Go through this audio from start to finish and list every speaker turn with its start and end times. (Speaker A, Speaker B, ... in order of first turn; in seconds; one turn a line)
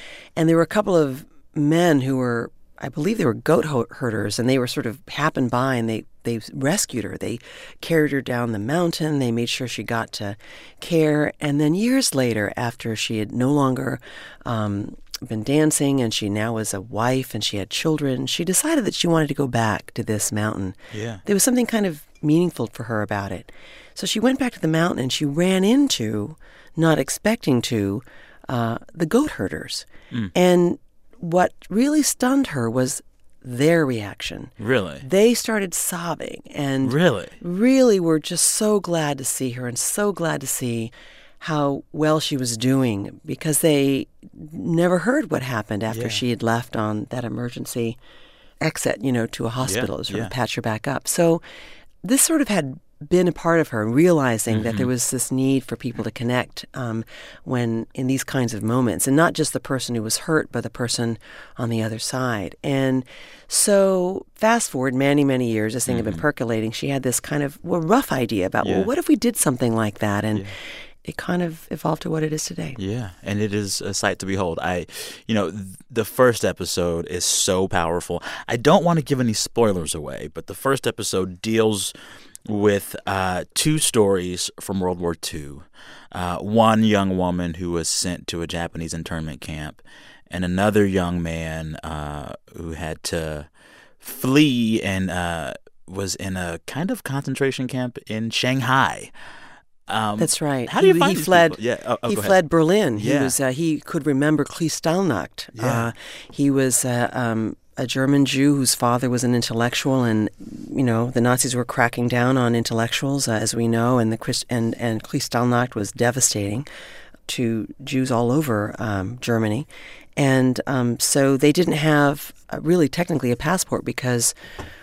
Speaker A: 0.4-48.0
Speaker B: 20.9-21.2
Speaker B: 34.6-35.0
Speaker B: 36.8-37.4
Speaker B: 45.9-46.2
Speaker A: 48.6-51.4
Speaker B: 49.6-50.3
Speaker A: 52.0-72.8
Speaker B: 54.5-54.9
Speaker B: 65.9-66.2
Speaker B: 68.6-68.9
Speaker B: 72.8-81.9
Speaker B: 82.5-93.5
Speaker B: 94.0-99.1
Speaker B: 99.9-102.4
Speaker A: 100.2-116.7
Speaker B: 103.0-103.3
Speaker B: 105.5-105.9
Speaker A: 117.3-124.3